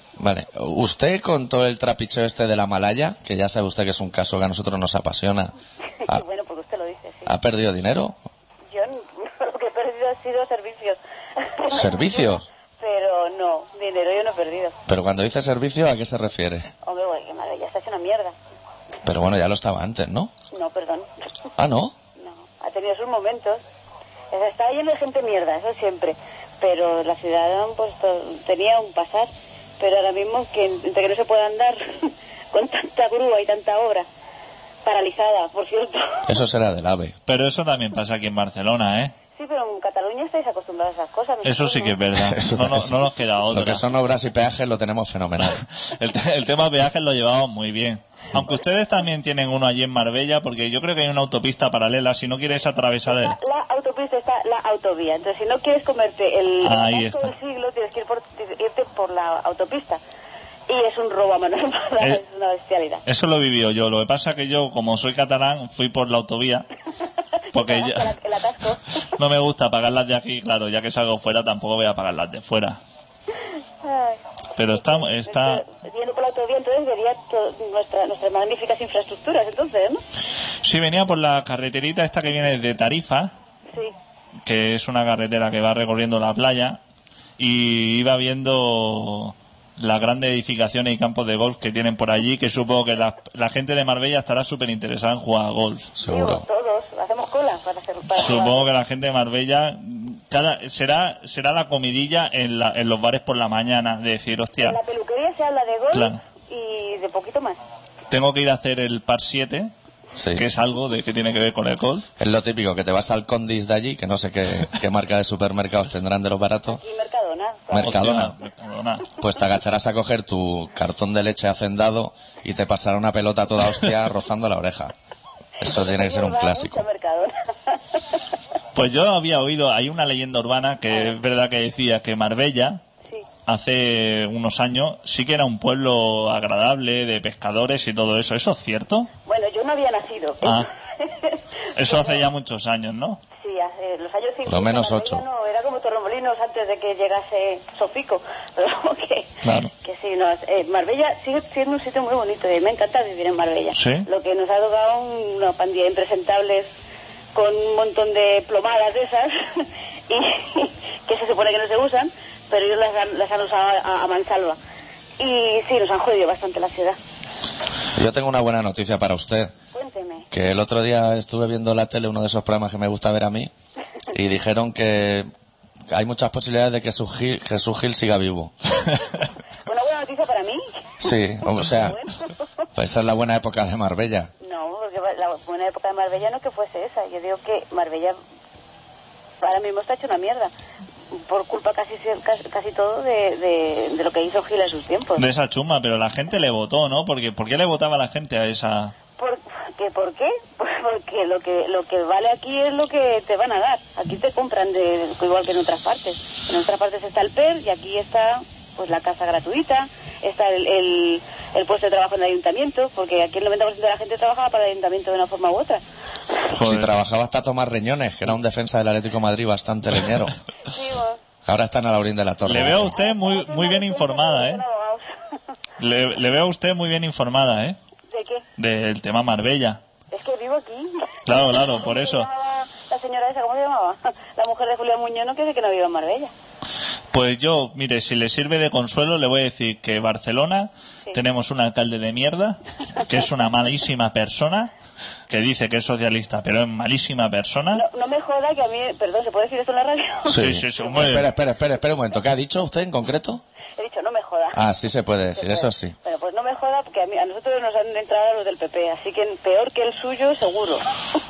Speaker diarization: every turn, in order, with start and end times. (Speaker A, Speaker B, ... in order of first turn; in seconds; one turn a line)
Speaker A: 0.2-5.5
Speaker B: 6.0-7.3
Speaker A: 7.3-8.2
Speaker B: 8.7-14.8
Speaker A: 11.7-12.4
Speaker A: 14.9-16.7
Speaker B: 16.8-18.4
Speaker A: 19.0-20.3
Speaker B: 20.5-21.1
Speaker A: 21.6-21.9
Speaker B: 22.2-23.6
Speaker B: 24.3-34.1
Speaker B: 34.8-36.3
Speaker A: 36.3-37.1
Speaker C: 37.3-39.1
Speaker B: 39.4-42.0
Speaker C: 41.4-43.8
Speaker A: 42.1-45.6
Speaker C: 45.4-53.4
Speaker B: 53.1-60.0
Speaker C: 56.6-57.3
Speaker B: 60.7-63.0
Speaker C: 63.1-66.7
Speaker C: 67.5-68.2
Speaker B: 67.5-69.0
Speaker C: 69.1-72.8
Speaker B: 73.8-80.0
Speaker C: 74.5-75.6
Speaker C: 80.6-83.3
Speaker C: 84.5-86.8
Speaker C: 87.4-95.9
Speaker A: 96.0-96.5
Speaker B: 96.0-98.7
Speaker C: 98.1-104.8
Speaker B: 104.6-107.6
Speaker C: 105.9-106.2
Speaker C: 108.1-109.7
Speaker A: 110.2-110.5
Speaker C: 110.3-112.1
Speaker A: 112.2-116.8
Speaker B: 116.7-117.9
Speaker A: 117.7-118.3
Speaker C: 117.8-119.1
Speaker A: 119.2-124.9
Speaker A: 125.6-126.8
Speaker B: 125.6-128.2
Speaker C: 128.8-132.8
Speaker C: 133.5-139.1
Speaker B: 139.3-142.2
Speaker C: 140.4-140.7
Speaker C: 141.8-143.2
Speaker B: 143.4-149.3
Speaker A: 144.5-145.2
Speaker C: 149.4-149.7
Speaker B: 149.8-156.7
Speaker C: 153.8-154.1
Speaker B: 157.3-164.6
Speaker B: 165.2-167.0
Speaker A: 167.9-169.5
Speaker B: 169.7-170.3
Speaker A: 170.3-173.5
Speaker A: 174.1-175.3
Speaker A: 175.9-178.5
Speaker B: 179.7-180.9
Speaker A: 181.0-182.0
Speaker B: 181.4-182.4
Speaker A: 182.8-184.3
Speaker B: 184.4-188.2
Speaker B: 189.4-190.5
Speaker B: 191.1-195.2
Speaker C: 195.2-198.9
Speaker B: 199.2-215.8
Speaker C: 216.5-216.9
Speaker A: 216.6-220.3
Speaker B: 220.7-221.2
Speaker A: 221.5-222.9
Speaker C: 222.4-224.6
Speaker B: 222.5-225.1
Speaker C: 225.8-227.8
Speaker B: 228.1-228.4
Speaker C: 228.6-229.8
Speaker B: 230.1-236.3
Speaker C: 231.3-232.3
Speaker C: 237.1-244.7
Speaker C: 245.3-247.8
Speaker B: 247.7-250.5
Speaker A: 250.3-253.4
Speaker C: 250.3-251.3
Speaker B: 253.8-254.6
Speaker A: 254.6-256.0
Speaker B: 255.3-260.9